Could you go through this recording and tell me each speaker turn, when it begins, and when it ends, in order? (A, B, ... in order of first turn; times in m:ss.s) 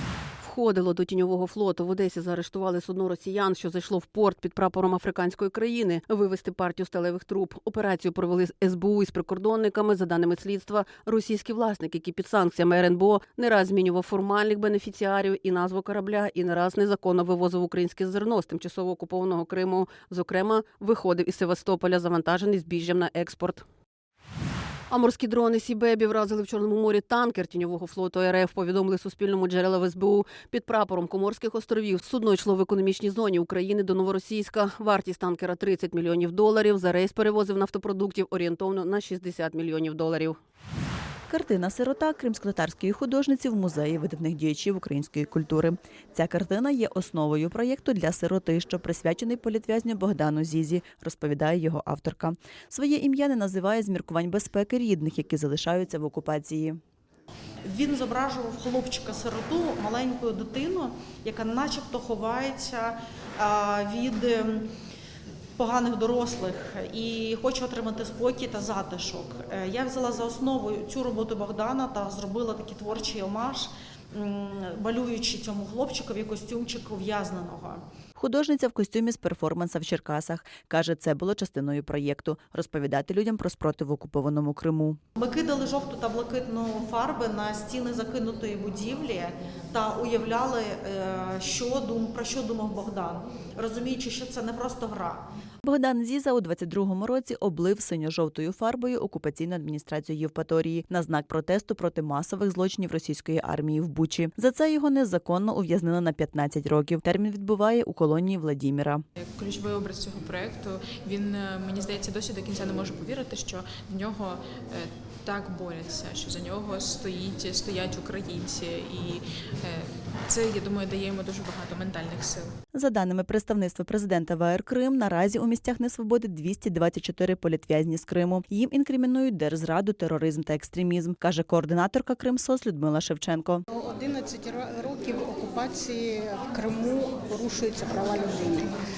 0:00.4-0:23.6 A
0:24.9-0:40.4 A
0:41.3-0:56.8 B
0:57.6-1:04.7 C
1:05.6-1:17.8 C
1:18.2-1:25.0 B
1:25.2-1:35.2 C
1:35.6-1:49.0 B
1:49.2-2:02.6 D
2:02.7-2:13.6 B
2:13.7-2:18.7 E